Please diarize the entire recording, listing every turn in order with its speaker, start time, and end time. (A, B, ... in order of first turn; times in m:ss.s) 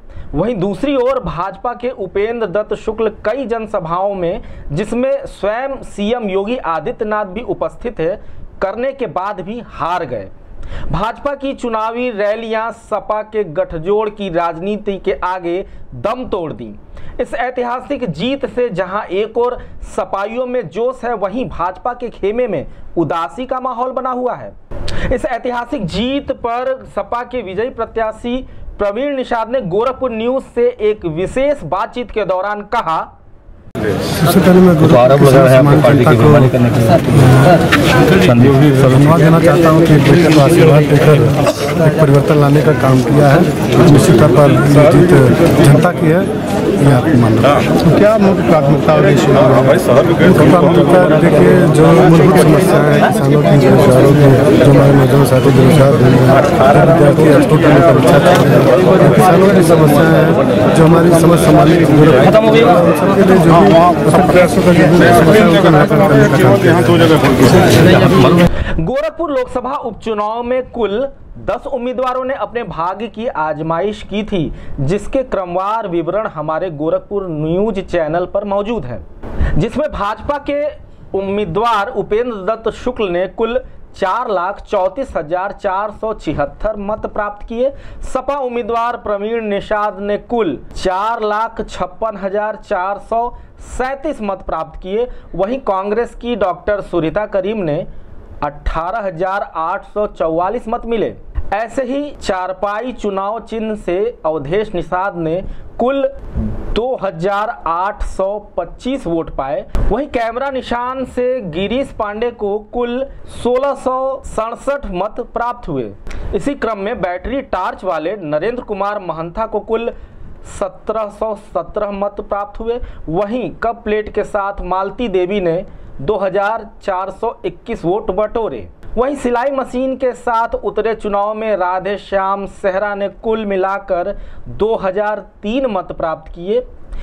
0:00.3-0:10.3 A
0:10.9-0:24.5 A
0:25.1-0:33.1 A
0:34.2-0:36.6 B
0:34.9-0:37.1 C
0:38.2-0:38.6 C
0:38.3-1:07.3 B
1:07.6-1:08.4 C
1:08.8-1:19.0 A
1:19.6-1:37.9 A
1:38.4-1:46.1 A
1:46.7-1:59.9 A
2:00.5-2:16.6 A